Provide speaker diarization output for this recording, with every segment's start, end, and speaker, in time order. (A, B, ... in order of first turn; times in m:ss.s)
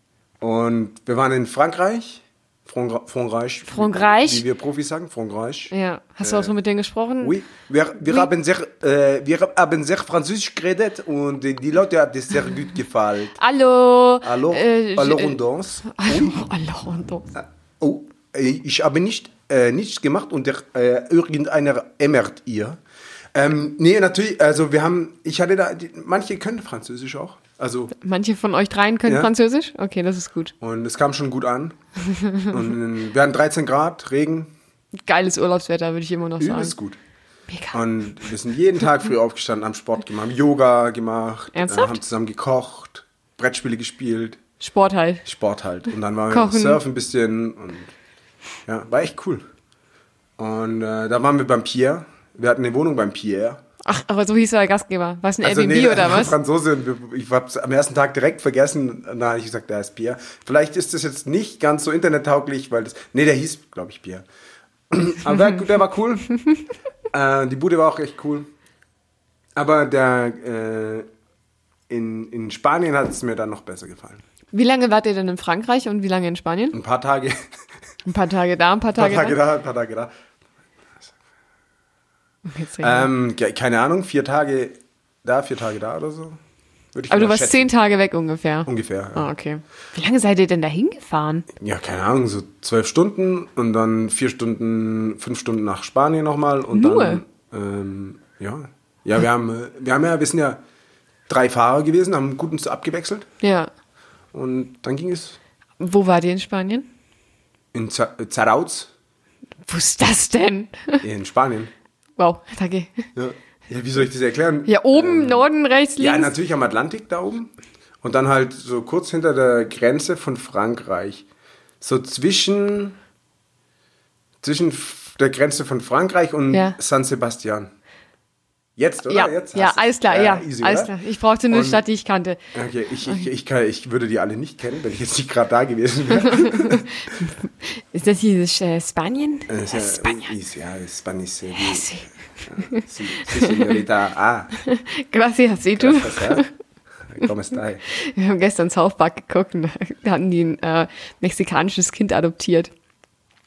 0:00.4-0:06.5 A
0:03.7-0:04.4 B
0:05.7-0:07.4 B
0:07.2-0:13.4 A
0:08.0-0:08.3 B
0:13.4-0:17.3 B
0:14.2-0:16.4 A
0:17.3-0:22.8 A
0:23.3-0:27.9 A
0:27.9-0:30.5 B
0:30.6-0:31.8 A
0:32.1-0:32.5 B
0:32.4-0:34.5 A
0:35.0-0:36.7 B
0:36.4-0:37.0 A
0:37.5-0:37.8 B
0:37.7-0:44.4 A
0:41.5-0:42.0 B
0:44.6-0:45.2 B
0:45.2-0:47.9 A
0:46.3-0:46.8 B
0:48.6-0:49.4 A
0:50.4-0:53.6 A
0:53.8-0:56.3 B
0:55.4-1:04.2 A
1:04.9-1:06.4 A
1:07.1-1:08.5 A
1:09.6-1:11.1 A
1:11.9-1:14.2 A
1:14.5-1:16.8 B
1:16.7-1:17.4 A
1:18.0-1:19.4 B
1:18.9-1:20.1 A
1:22.4-1:23.1 B
1:22.8-1:26.4 A
1:26.9-1:27.7 A
1:27.1-1:31.5 B
1:28.6-1:29.3 A
1:31.6-1:40.6 A
1:36.7-1:37.2 B
1:41.3-1:43.3 A
1:43.4-1:43.7 B
1:44.3-1:45.4 A
1:45.8-1:46.9 B
1:47.7-1:48.9 A
1:49.7-1:51.0 B
1:51.0-1:51.7 A
1:52.2-1:53.0 B
1:53.1-1:55.4 A
1:54.7-1:56.3 B
1:56.0-2:01.2 A
2:01.8-2:03.0 A
2:04.4-2:07.7 A
2:06.5-2:06.8 B
2:08.8-2:10.9 A
2:09.1-2:12.4 B
2:11.5-2:11.8 A
2:12.5-2:16.9 A
2:16.4-2:20.3 B
2:19.5-2:21.9 A
2:21.5-2:22.1 B
2:22.4-2:24.5 A
2:22.6-2:23.7 B
2:24.6-2:26.5 B
2:25.8-2:26.5 A
2:27.0-2:27.8 A
2:27.9-2:32.7 B